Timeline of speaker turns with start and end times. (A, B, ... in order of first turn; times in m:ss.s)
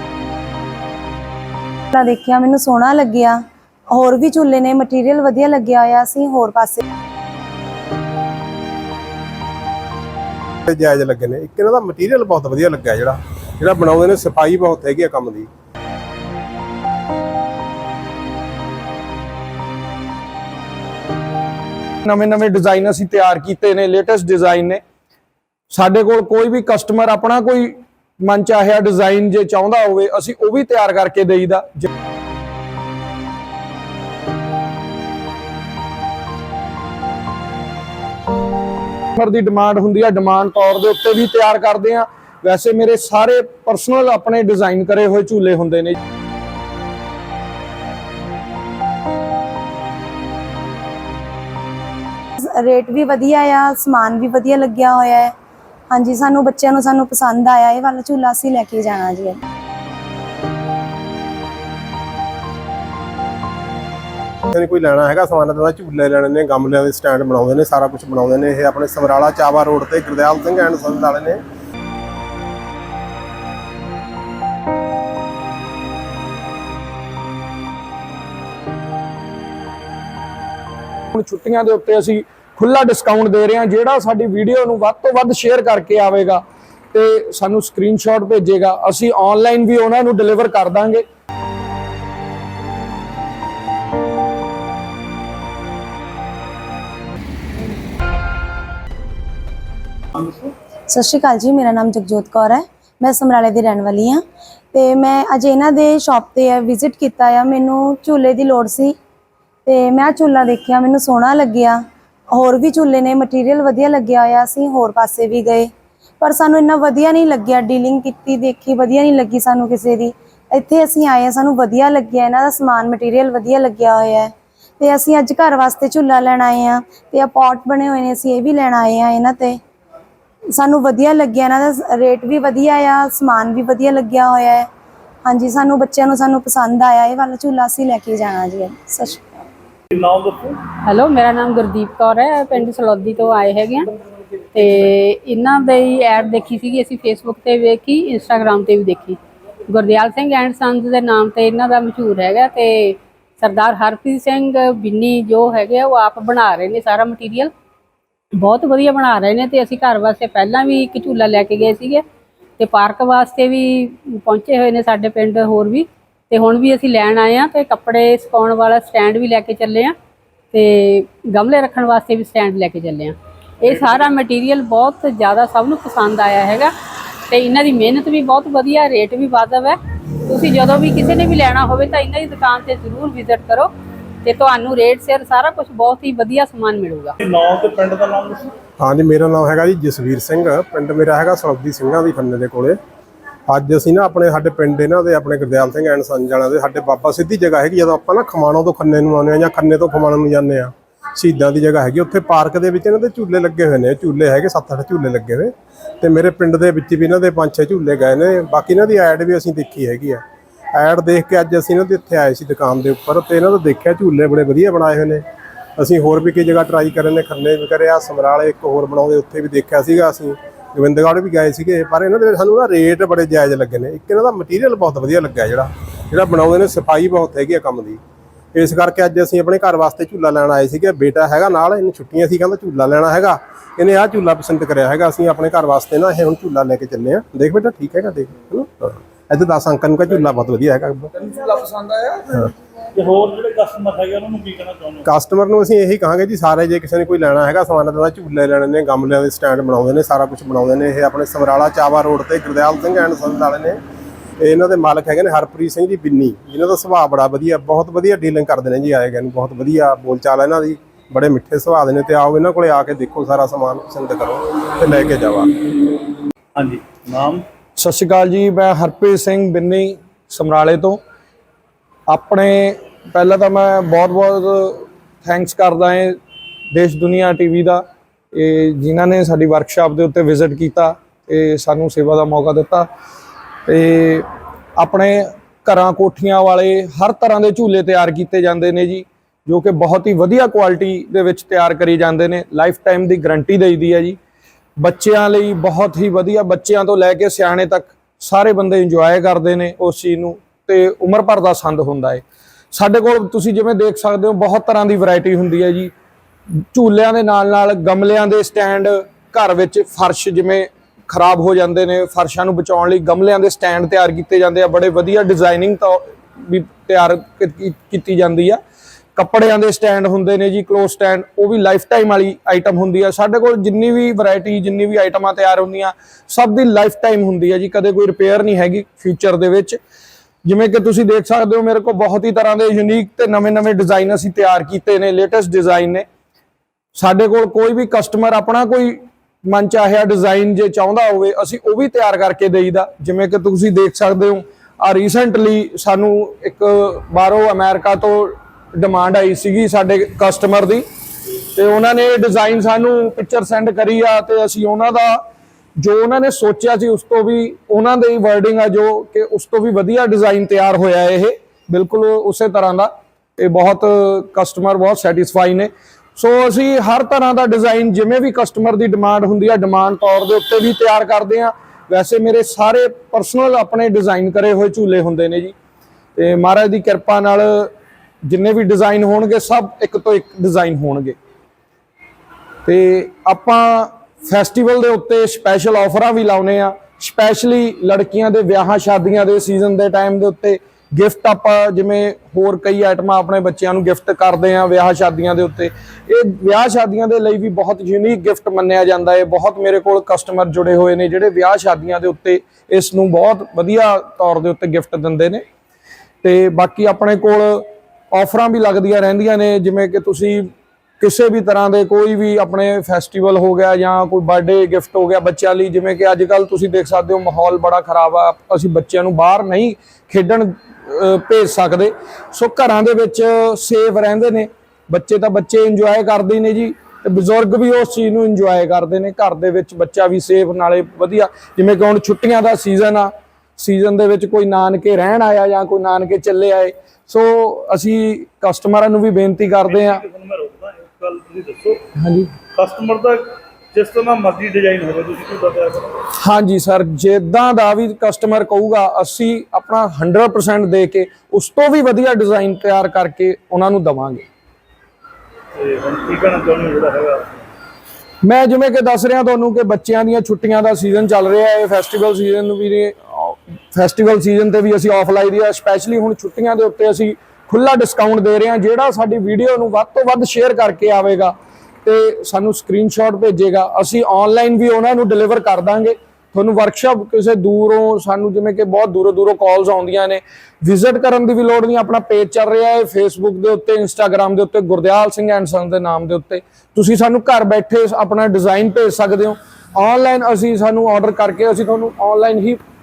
0:01.9-0:06.8 A
0:10.7-0:15.5 B
0:22.0-0:24.8 C
0:25.7-0:31.9 C
0:39.2-0:46.0 C
0:52.6-0:55.3 A
0:55.9-0:59.4 A
1:04.5-1:11.4 B
1:21.1-1:26.4 C
1:26.9-1:31.0 C
1:40.2-1:40.5 D
1:40.9-1:44.2 A
1:44.7-1:49.0 A
1:49.7-1:51.8 A
1:52.3-1:55.7 A
1:56.2-2:09.6 A
2:10.6-2:14.7 A
2:15.3-2:19.4 A
2:19.9-2:20.6 D
2:20.8-2:23.9 E
2:24.5-2:29.2 E
2:29.7-2:37.5 E
2:38.4-2:42.0 E
2:42.6-2:49.9 E
2:50.5-2:56.7 E
2:57.3-3:03.7 E
3:04.2-3:07.2 E
3:07.2-3:08.6 D
3:08.8-3:12.8 B
3:13.5-3:30.2 B
3:30.7-3:35.2 B
3:35.8-3:48.0 B
3:48.5-4:01.1 B
4:01.1-4:02.5 C
4:02.9-4:05.1 D
4:05.1-4:13.8 B
4:14.4-4:25.7 B
4:26.6-4:27.4 D
4:27.8-4:31.0 C
4:32.1-4:36.2 C
4:36.7-4:42.9 C
4:43.7-4:54.2 C
4:54.8-5:05.9 C
5:06.7-5:18.6 C
5:19.2-5:29.8 C
5:30.4-5:36.0 C
5:37.0-5:50.8 C
5:51.5-5:55.2 C
5:55.8-6:15.5 C
6:16.2-6:17.7 C
6:18.3-6:21.2 C
6:22.6-6:45.4 C
6:46.2-7:20.0 C
7:19.6-7:21.8 D
7:22.0-7:22.3 C
7:22.5-7:26.0 D
7:26.2-7:34.2 C
7:35.6-7:37.4 D
7:38.2-7:51.3 C
7:51.8-8:12.6 C